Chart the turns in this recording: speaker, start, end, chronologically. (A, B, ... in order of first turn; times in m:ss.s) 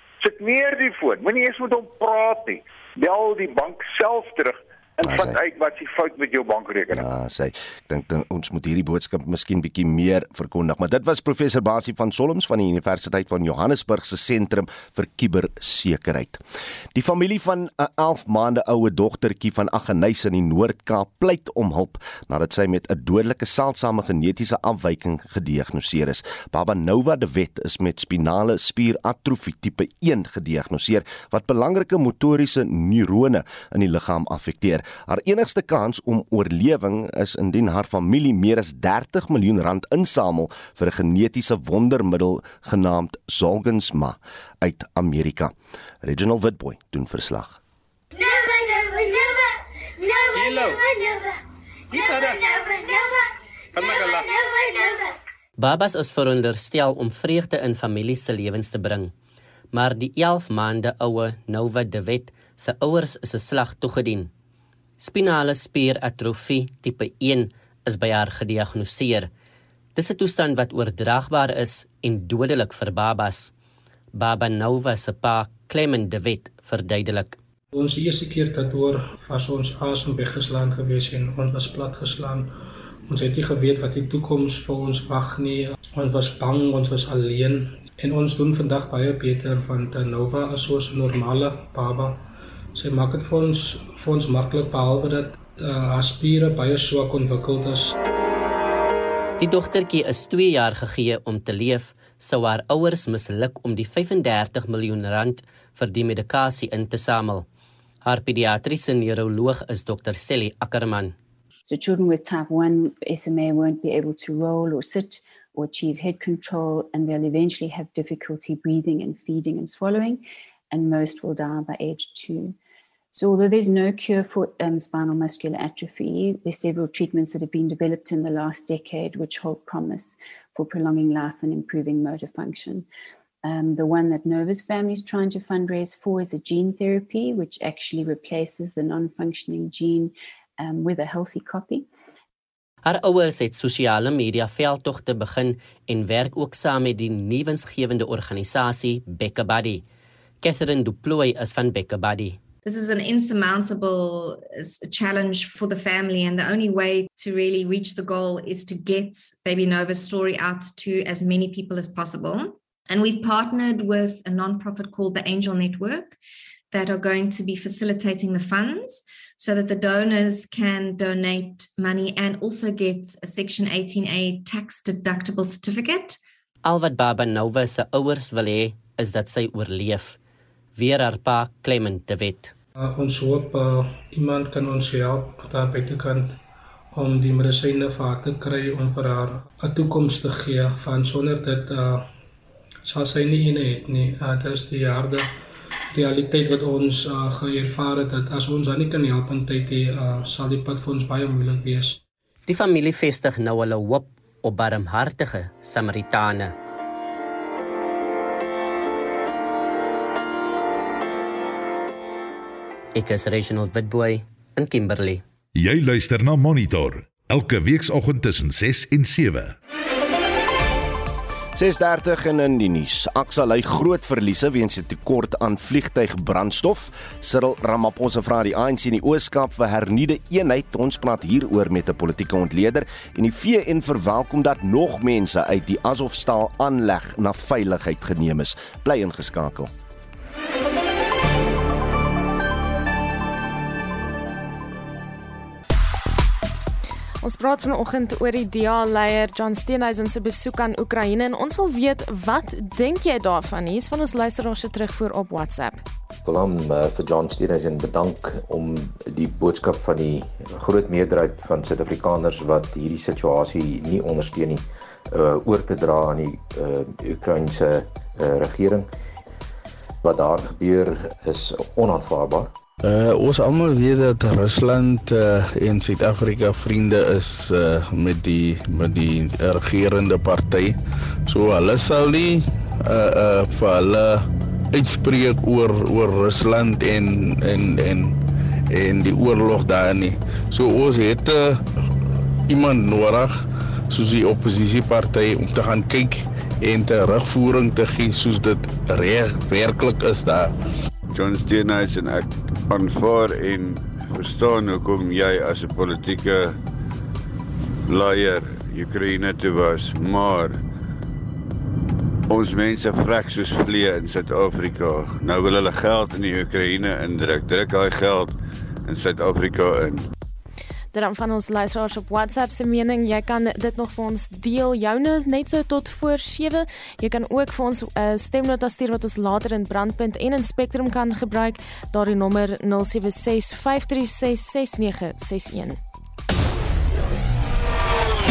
0:00.2-0:07.0 A
0:05.0-0:05.4 B
0:06.9-0:16.4 B
0:16.9-0:47.6 B
0:55.6-0:59.1 C
0:59.7-1:04.3 C
1:05.0-1:09.3 C
1:10.0-1:13.5 C
1:14.1-1:17.4 C
1:17.7-1:22.5 D
1:23.1-1:38.0 D
1:39.4-1:47.4 C
1:48.0-1:51.1 C
1:51.6-2:02.5 E
2:03.1-2:12.8 E
2:13.4-2:21.8 E
2:22.8-2:29.8 C
2:30.4-2:32.4 C
2:32.6-2:46.2 F
2:46.7-2:56.2 F
2:56.6-3:00.2 C
3:00.8-3:02.5 C
3:02.8-3:06.4 D
3:06.9-3:12.1 D
3:12.8-3:15.3 D
3:15.9-3:22.0 D
3:22.5-3:26.5 C
3:32.9-3:35.2 C
3:35.6-3:39.6 G
3:41.5-3:59.7 B
4:07.2-4:15.8 H
4:16.2-4:28.9 I
4:30.0-4:32.5 I
4:32.8-4:48.2 J
4:48.7-4:51.6 J
4:52.5-5:00.5 J
5:01.1-5:06.6 K
5:07.9-5:10.6 K
5:12.3-5:20.1 K
5:20.9-5:35.8 H